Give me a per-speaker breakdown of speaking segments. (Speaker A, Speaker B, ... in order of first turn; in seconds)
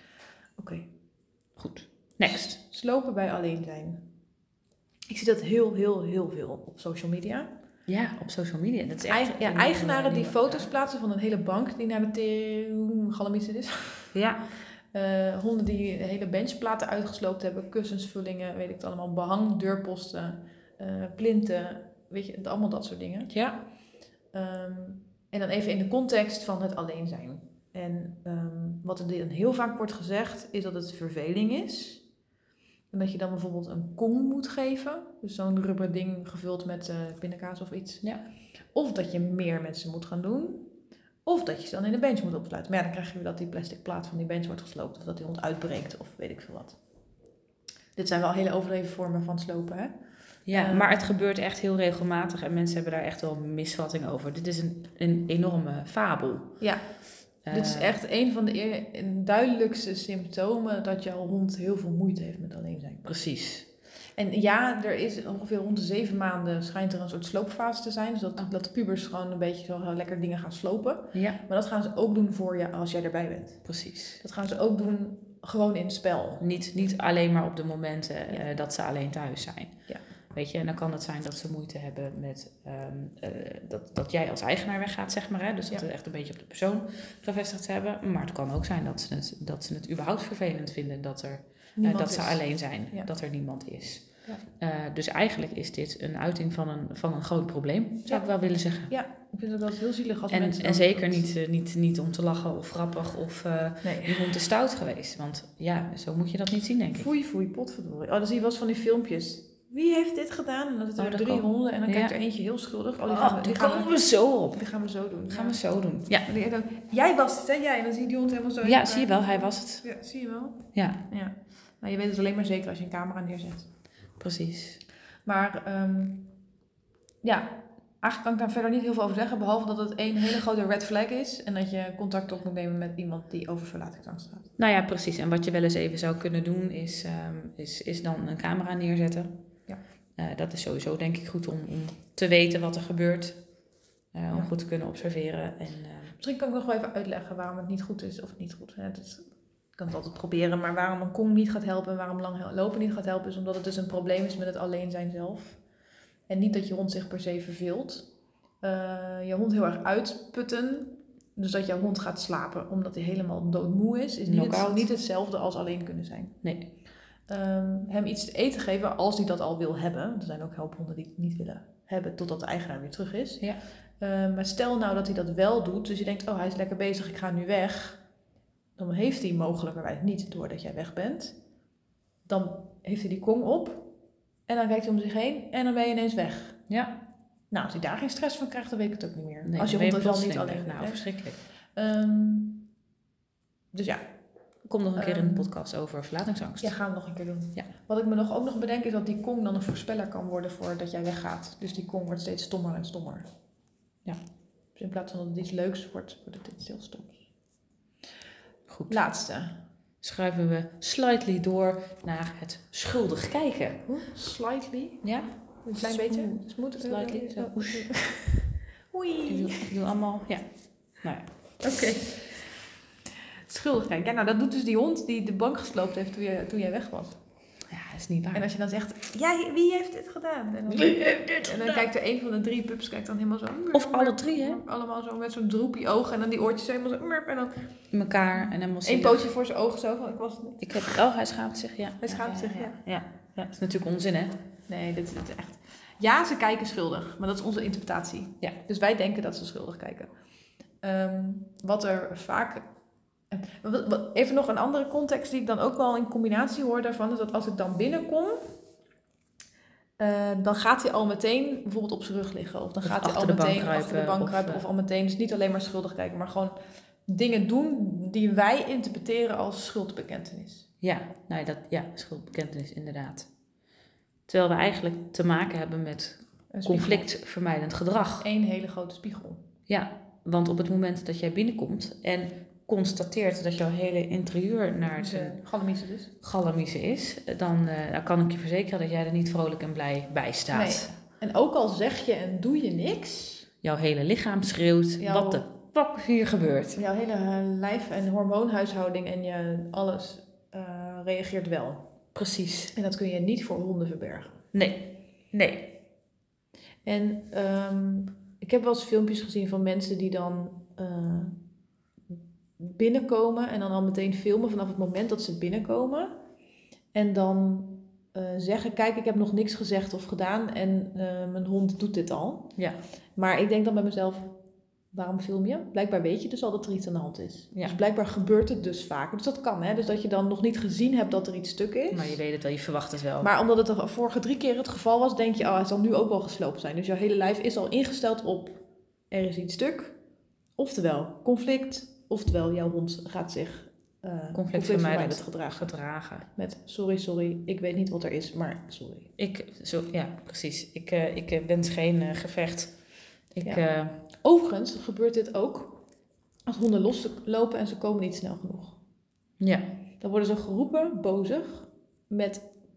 Speaker A: 0.6-0.9, 2.2-4.0, 5.1-7.5, 9.1-14.2, 14.9-23.3, 24.3-32.0, 32.9-38.1, 38.7-40.7, 41.2-46.8, 48.0-49.9, 50.5-51.0, 57.5-63.1, 64.2-73.7, 74.2-76.4, 91.8-93.1, 98.9-101.3, 103.8-104.4, 107.0-114.0, 114.5-115.6, 116.1-123.7, 125.3-126.4, 127.2-134.5, 146.2-155.6, 156.3-158.1, 158.6-166.4, 167.3-173.5, 174.0-178.0, 178.8-181.3, 182.3-183.9, 184.5-186.6, 187.5-191.1, 191.8-192.7, 193.7-194.0, 195.0-195.5, 196.6-203.3, 204.8-207.2, 208.9-209.6, 213.9-215.1, 215.6-219.7, 221.6-222.3, 223.5-227.2, 228.3-237.7, 238.8-240.6, 242.0-242.8, 244.7-250.1, 250.8-252.7, 253.3-258.4, 260.0-270.7, 276.5-277.1, 278.2-279.4, 285.0-286.1, 290.5-293.5, 295.0-295.4, 296.8-301.9, 302.7-304.4, 306.9-311.4, 312.1-316.2, 316.9-322.6, 323.2-324.4, 324.9-332.2, 333.2-340.0, 340.6-345.8, 346.3-349.1, 353.4-355.8, 356.5-358.8, 360.0-362.5
Speaker B: 1.6-2.5, 7.9-10.7, 14.1-14.4, 23.3-23.6, 50.5-56.5, 57.5-58.0, 63.0-63.7, 71.1-71.4, 73.7-74.2, 76.4-79.8, 80.3-98.9, 100.3-107.1, 111.0-112.2, 113.1-114.6, 115.3-116.3, 118.6-119.8, 120.8-121.0, 124.2-124.8, 134.6-139.3, 140.2-143.4, 144.1-146.2, 164.3-164.9, 166.4-166.7, 186.7-187.0, 189.4-191.4, 194.7-196.7, 208.7-209.0, 210.0-213.8, 215.0-217.9, 219.3-220.4, 221.0-221.3, 227.7-228.5, 230.7-231.8, 233.7-234.6, 237.9-239.2, 240.6-244.3, 262.8-264.6, 270.8-273.3, 274.3-278.2, 279.7-285.4, 286.2-290.9, 293.6-296.8, 302.1-302.7, 304.5-305.8, 331.9-333.3, 344.3-346.3, 349.2-352.8, 353.3-354.0, 359.4-359.7